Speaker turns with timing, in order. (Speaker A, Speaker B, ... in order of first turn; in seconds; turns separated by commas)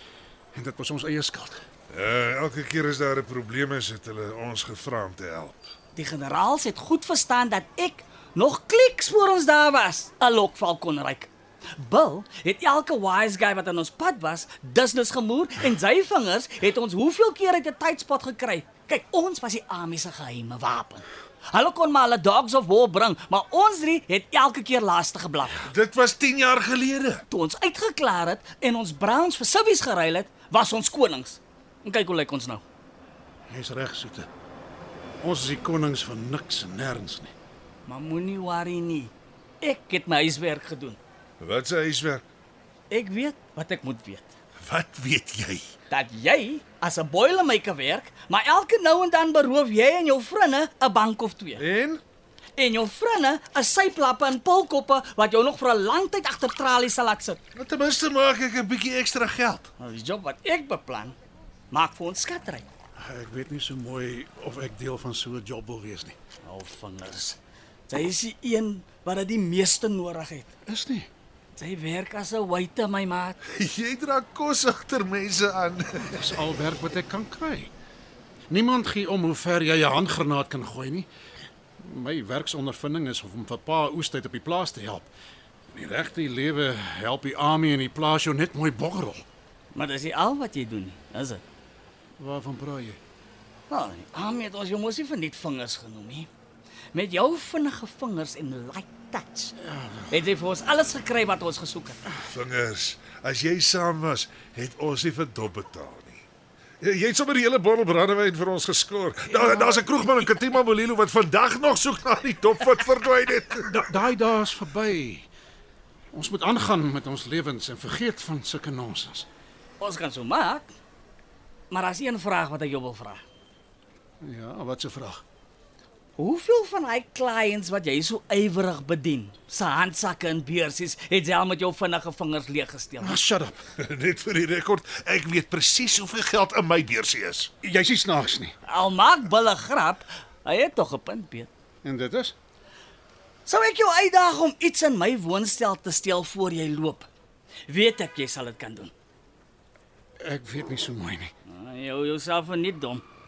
Speaker A: 0.5-1.6, Speaker B: 1.9-5.7, Speaker C: 6.0-25.7, Speaker B: 25.6-27.2, Speaker C: 27.3-32.6, Speaker A: 33.5-34.3, Speaker A: 35.2-37.3, Speaker C: 37.9-41.0, Speaker B: 41.4-42.2, Speaker C: 42.9-44.3, Speaker B: 44.6-45.7, Speaker C: 45.9-51.6, Speaker B: 51.6-52.0, Speaker C: 52.6-57.4, Speaker B: 57.5-59.7, Speaker C: 59.8-61.1, Speaker C: 61.7-62.6, Speaker A: 63.0-66.2, Speaker C: 66.4-67.4, Speaker C: 67.9-70.5, Speaker A: 70.7-71.1, Speaker C: 71.6-73.4, Speaker B: 73.5-76.2, Speaker A: 76.0-77.7, Speaker A: 78.5-81.1, Speaker A: 81.8-85.1, Speaker A: 85.7-89.2, Speaker C: 89.7-91.4, Speaker A: 92.2-93.0, Speaker C: 93.7-96.3, Speaker C: 96.9-99.6, Speaker A: 99.6-100.1, Speaker C: 100.1-102.0, Speaker B: 102.3-106.2, Speaker B: 106.8-113.8, Speaker C: 109.5-109.7, Speaker A: 113.6-115.3, Speaker A: 116.1-119.3, Speaker C: 119.8-120.7, Speaker C: 121.7-123.2, Speaker A: 124.2-125.2, Speaker C: 126.2-133.2, Speaker A: 133.0-133.6, Speaker B: 133.8-137.5, Speaker A: 137.6-138.5, Speaker C: 138.6-141.5, Speaker A: 141.8-142.3, Speaker C: 143.5-147.1, Speaker C: 147.7-148.9, Speaker A: 150.2-151.3, Speaker C: 151.5-153.0